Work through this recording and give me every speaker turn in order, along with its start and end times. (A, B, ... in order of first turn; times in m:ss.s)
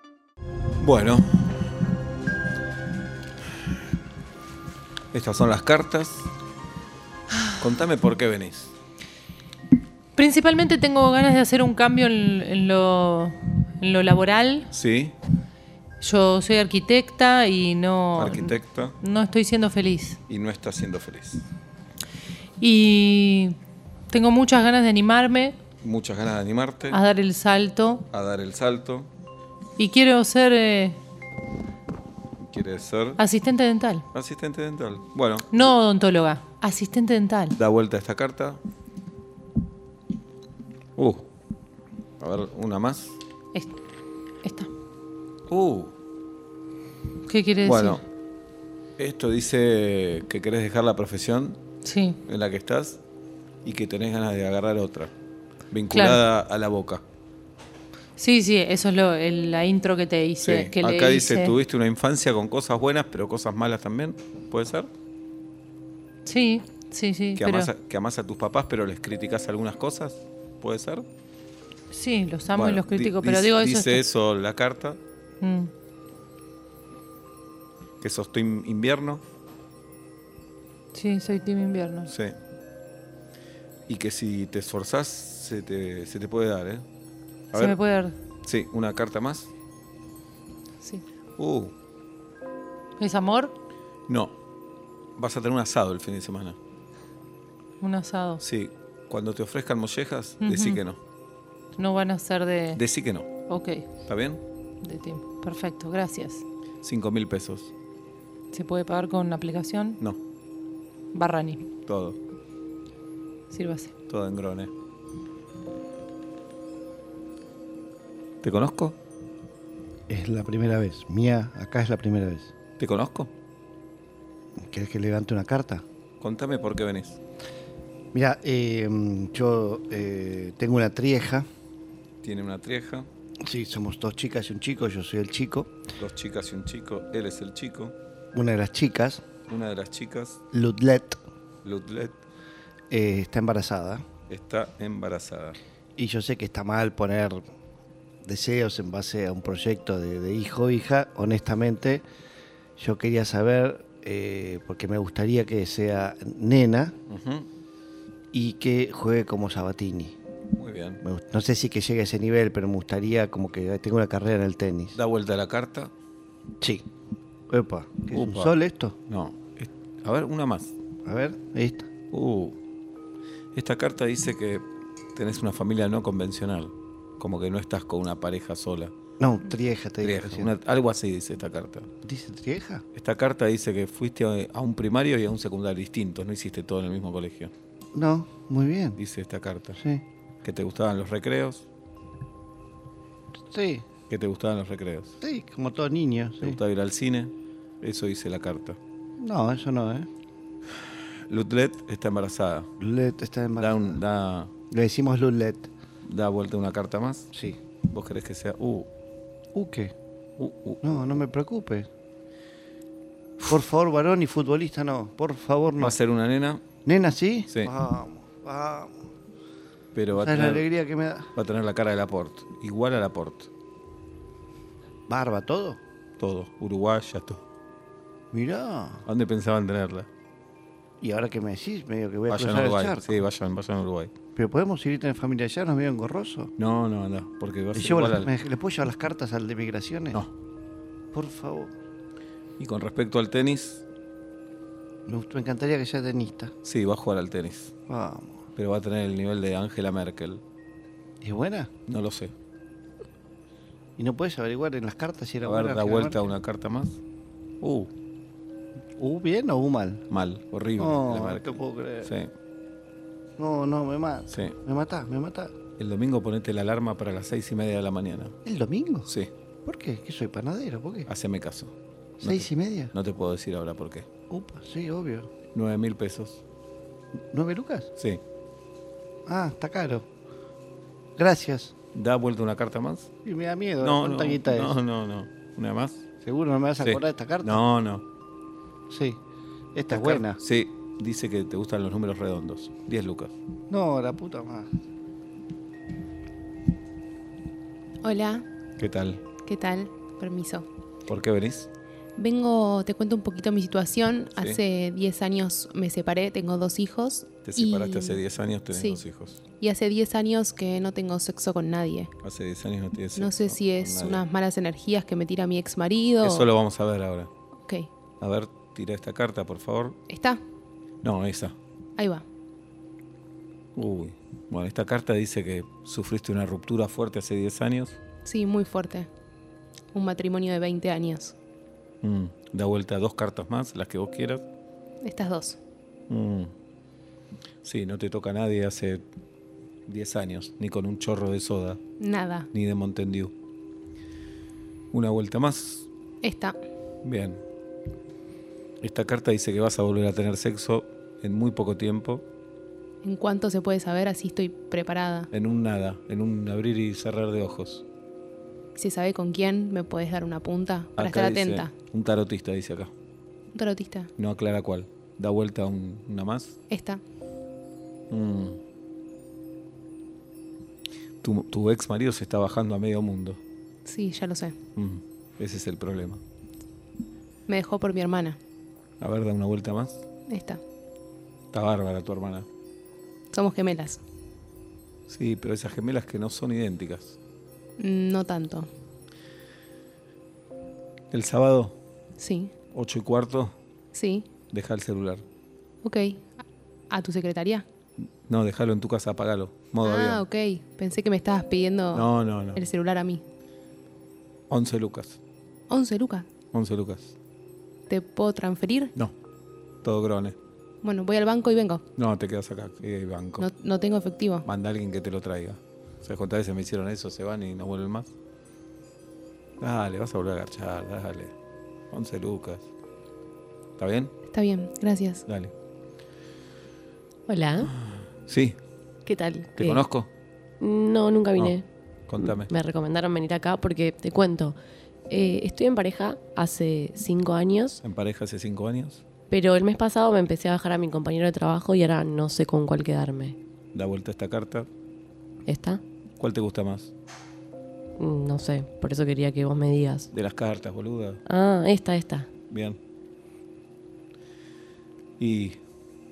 0:00.8-0:01.3 A
0:05.1-0:06.3 A
0:07.6-0:08.7 A
0:10.2-0:14.7 B
0:14.7-0:15.1 A
0:16.0-0:20.2 B
0:18.2-0:19.0 A
0:20.3-0:21.4 A
0:22.6-0:23.6 B
0:24.1-0:25.6 B
0:25.8-0:27.0 A
0:26.9-0:28.0 B
0:28.1-0:29.1 A
0:29.8-0:31.0 B
0:32.4-0:33.2 A
0:33.2-0:34.0 B
0:34.1-0:35.5 A
0:35.5-0:37.6 B
0:37.6-0:38.6 A
0:41.0-0:41.2 A
0:42.2-0:43.2 A
0:44.4-0:44.7 B
0:45.5-0:45.9 A
0:47.2-0:48.0 B
0:47.6-0:48.0 A
0:49.0-0:51.6 A
0:51.8-0:52.2 B
0:52.3-0:53.0 A
0:53.6-0:55.1 A
0:55.7-0:57.0 A
0:55.9-0:56.2 B
0:58.2-1:01.6 B
1:00.4-1:04.9 A
1:06.2-1:07.7 B
1:07.4-1:11.0 A
1:11.9-1:14.0 B
1:12.5-1:15.0 A
1:15.4-1:15.7 B
1:18.0-1:19.2 A
1:20.9-1:22.1 B
1:22.1-1:22.4 A
1:23.9-1:26.8 A
1:27.5-1:27.8 A
1:27.5-1:28.2 B
1:28.4-1:29.5 A
1:31.4-1:31.7 A
1:33.0-1:33.5 B
1:34.1-1:34.3 A
1:35.2-1:36.6 A
1:37.8-1:38.4 B
1:38.4-1:41.0 A
1:40.4-1:40.8 B
1:41.8-1:42.8 B
1:42.7-1:43.3 A
1:43.4-1:43.9 B
1:44.0-1:44.4 A
1:44.8-1:46.4 B
1:46.8-1:47.7 A
1:48.5-1:50.0 B
1:51.1-1:51.7 B
1:51.8-1:52.2 A
1:53.5-1:53.9 B
1:54.1-1:54.7 A
1:58.4-1:59.0 A
2:00.1-2:02.5 C
2:02.8-2:03.3 A
2:04.6-2:05.8 C
2:06.2-2:07.2 A
2:08.1-2:11.4 C
2:12.2-2:13.1 A
2:13.4-2:15.7 C
2:16.0-2:17.9 A
2:18.3-2:19.2 C
2:19.5-2:20.4 A
2:20.5-2:21.2 C
2:21.6-2:22.2 A
2:22.9-2:24.0 C
2:24.3-2:25.6 A
2:26.0-2:27.4 C
2:28.2-2:32.0 C
2:32.8-2:36.9 C
2:37.1-2:37.5 A
2:38.3-2:40.2 C
2:40.5-2:41.0 A
2:41.0-2:45.0 C
2:44.9-2:45.9 A
2:47.5-2:49.0 C
2:48.1-2:48.5 A
2:49.1-2:50.8 A
2:51.0-2:51.9 C
2:52.1-2:52.6 A
2:53.5-2:58.9 A
2:59.2-3:00.5 C
3:00.0-3:01.9 A
3:02.0-3:02.8 C
3:02.9-3:07.5 A
3:07.9-3:09.0 C
3:09.0-3:09.8 A
3:09.8-3:10.0 C
3:10.4-3:11.7 A
3:13.5-3:13.8 C
3:14.1-3:15.2 A
3:15.2-3:16.6 C
3:16.4-3:18.8 A
3:19.2-3:20.1 C
3:21.3-3:22.7 A
3:22.8-3:24.0 C
3:23.6-3:24.5 A
3:24.7-3:25.7 C
3:26.0-3:27.3 A
3:27.9-3:28.9 A
3:29.5-3:29.9 C
3:30.4-3:30.9 A
3:30.8-3:31.9 C
3:33.5-3:36.0 C
3:35.8-3:36.7 A
3:36.8-3:38.9 C
3:39.9-3:40.6 A
3:40.1-3:41.3 C
3:41.4-3:43.5 A
3:45.1-3:45.8 C
3:46.2-3:47.4 A
3:48.3-3:49.0 C
3:49.0-3:50.1 A
3:51.0-3:53.2 C
3:52.3-3:54.1 A
3:54.4-3:56.5 C
3:56.6-3:58.3 A
3:57.7-4:00.2 C
4:01.1-4:01.7 C
4:02.6-4:03.8 A
4:05.1-4:06.5 C
4:06.6-4:07.7 A
4:07.9-4:08.4 C
4:08.6-4:10.4 A
4:11.2-4:11.7 C
4:11.9-4:12.3 A
4:14.0-4:16.2 C
4:15.4-4:17.0 A
4:17.6-4:17.9 A
4:19.0-4:20.0 C
4:20.1-4:22.3 A
4:20.8-4:22.1 C
4:23.4-4:25.5 C
4:24.3-4:24.6 A
4:25.8-4:28.4 A
4:28.4-4:29.1 C
4:29.6-4:31.1 C
4:31.1-4:34.1 A
4:32.2-4:32.9 C
4:34.3-4:35.3 C
4:35.5-4:36.4 A
4:37.3-4:37.9 C
4:38.0-4:38.2 A
4:39.2-4:40.1 C
4:41.2-4:41.7 C
4:41.9-4:43.1 A
4:43.2-4:44.8 C
4:43.8-4:46.1 A
4:46.2-4:47.6 C
4:46.8-4:48.0 A
4:48.9-4:49.2 C
4:49.7-4:50.4 C
4:49.9-4:53.3 A
4:53.7-4:54.7 C
4:58.0-4:58.4 D
4:58.8-4:59.2 A
4:59.4-5:00.7 D
5:01.1-5:01.7 A
5:02.2-5:09.0 D
5:04.4-5:04.6 A
5:07.4-5:09.4 A
5:09.6-5:12.1 D
5:12.2-5:14.2 A
5:13.1-5:16.5 D
5:16.2-5:17.3 A
5:18.2-5:20.0 A
5:20.1-5:20.4 D
5:21.0-5:21.6 A
5:22.0-5:22.2 D
5:23.8-5:28.0 A
5:28.2-5:29.1 D
5:29.9-5:31.3 D
5:32.0-5:34.4 A
5:35.0-5:35.6 D
5:36.1-5:36.5 A
5:37.6-5:39.0 A
5:39.9-5:41.8 A
5:42.0-5:42.5 D
5:42.5-5:43.3 A
5:44.9-5:45.9 A
5:46.2-5:46.6 D
5:47.0-5:47.4 A
5:48.8-5:52.2 A
5:53.0-5:55.3 D
5:55.3-5:57.8 A
5:58.8-6:01.7 D
6:01.0-6:02.9 A
6:03.5-6:04.1 D
6:04.2-6:06.6 A
6:06.7-6:07.0 D
6:08.1-6:08.6 A
6:11.2-6:13.4 A
6:13.8-6:14.6 D
6:14.8-6:16.2 A
6:17.5-6:18.4 D
6:19.0-6:20.0 A
6:20.3-6:20.6 D
6:21.5-6:22.5 A
6:23.3-6:24.0 D
6:25.1-6:27.2 A
6:27.8-6:28.7 D
6:31.1-6:31.8 A
6:32.2-6:32.5 D
6:32.7-6:33.5 A
6:33.9-6:34.3 D
6:34.5-6:35.2 A
6:35.8-6:36.3 D
6:36.9-6:37.6 D
6:38.2-6:40.3 A
6:39.8-6:43.2 D
6:41.9-6:42.7 A
6:44.5-6:45.2 A
6:45.7-6:46.3 D
6:46.5-6:47.1 A
6:47.9-6:48.9 D
6:49.8-6:50.4 A
6:50.8-6:51.8 D
6:52.0-6:53.5 A
6:53.4-6:54.4 D
6:54.4-6:58.1 A
6:59.6-7:01.3 A
7:01.9-7:02.7 A
7:03.8-7:04.1 A
7:04.3-7:05.2 D
7:05.2-7:05.5 A
7:07.3-7:07.7 E
7:07.6-7:08.6 A
7:09.0-7:09.9 E
7:09.6-7:10.1 A
7:10.6-7:11.6 E
7:12.1-7:12.5 A
7:12.2-7:14.6 E
7:15.1-7:17.8 E
7:17.8-7:19.0 A
7:19.3-7:23.4 E
7:23.7-7:24.7 A
7:25.4-7:25.8 E
7:26.2-7:26.9 A
7:28.0-7:30.1 E
7:30.1-7:31.2 A
7:31.2-7:32.3 E
7:32.5-7:32.8 A
7:35.2-7:35.6 A